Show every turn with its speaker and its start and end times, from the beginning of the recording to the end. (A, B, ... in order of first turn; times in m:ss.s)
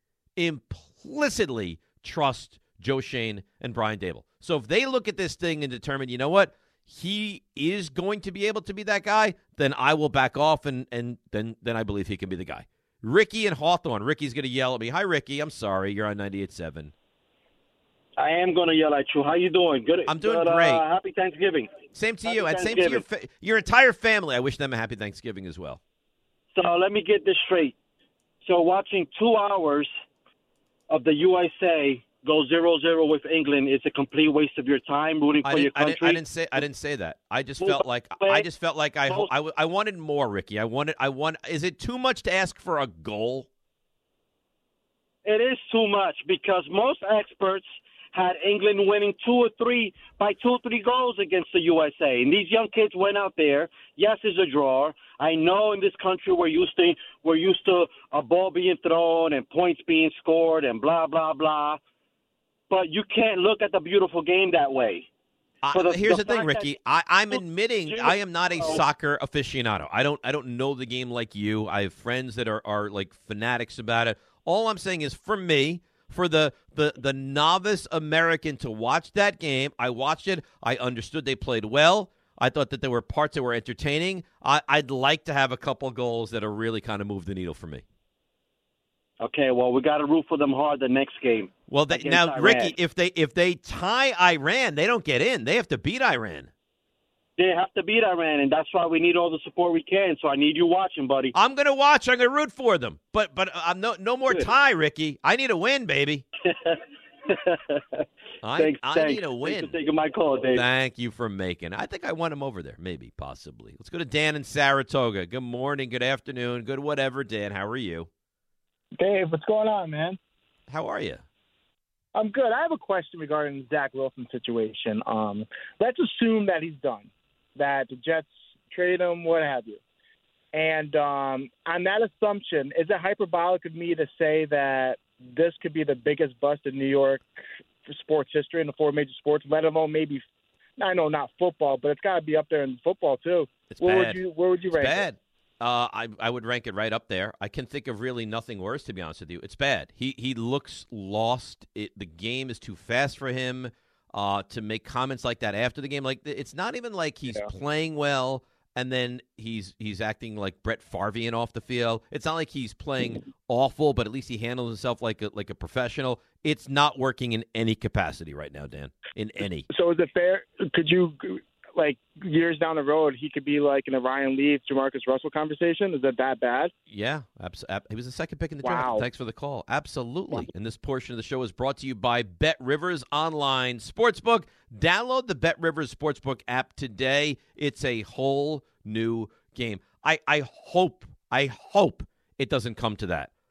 0:00.4-0:16.9 A
0:18.2-0:21.7 B
0:20.1-0:20.8 A
0:21.9-0:25.8 A
0:22.3-0:23.0 B
0:26.6-0:27.8 B
0:28.4-0:29.9 B
0:30.9-0:36.2 B
0:35.4-0:43.5 A
0:37.6-0:38.5 B
0:45.2-1:01.8 B
1:02.7-1:05.1 B
1:05.6-1:27.8 A
1:05.7-1:06.8 B
1:07.3-1:08.8 B
1:29.2-1:32.8 B
1:31.7-1:36.5 A
1:37.4-1:41.3 B
1:41.4-1:46.2 A
1:46.4-1:50.6 B
1:48.4-1:49.8 A
1:50.5-1:58.1 A
1:58.9-2:00.2 C
2:00.7-2:01.2 A
2:02.1-2:09.8 C
2:10.5-2:20.2 C
2:20.8-2:25.1 C
2:23.7-2:49.7 A
2:49.7-2:56.7 C
2:56.9-3:13.3 A
2:58.6-2:59.0 C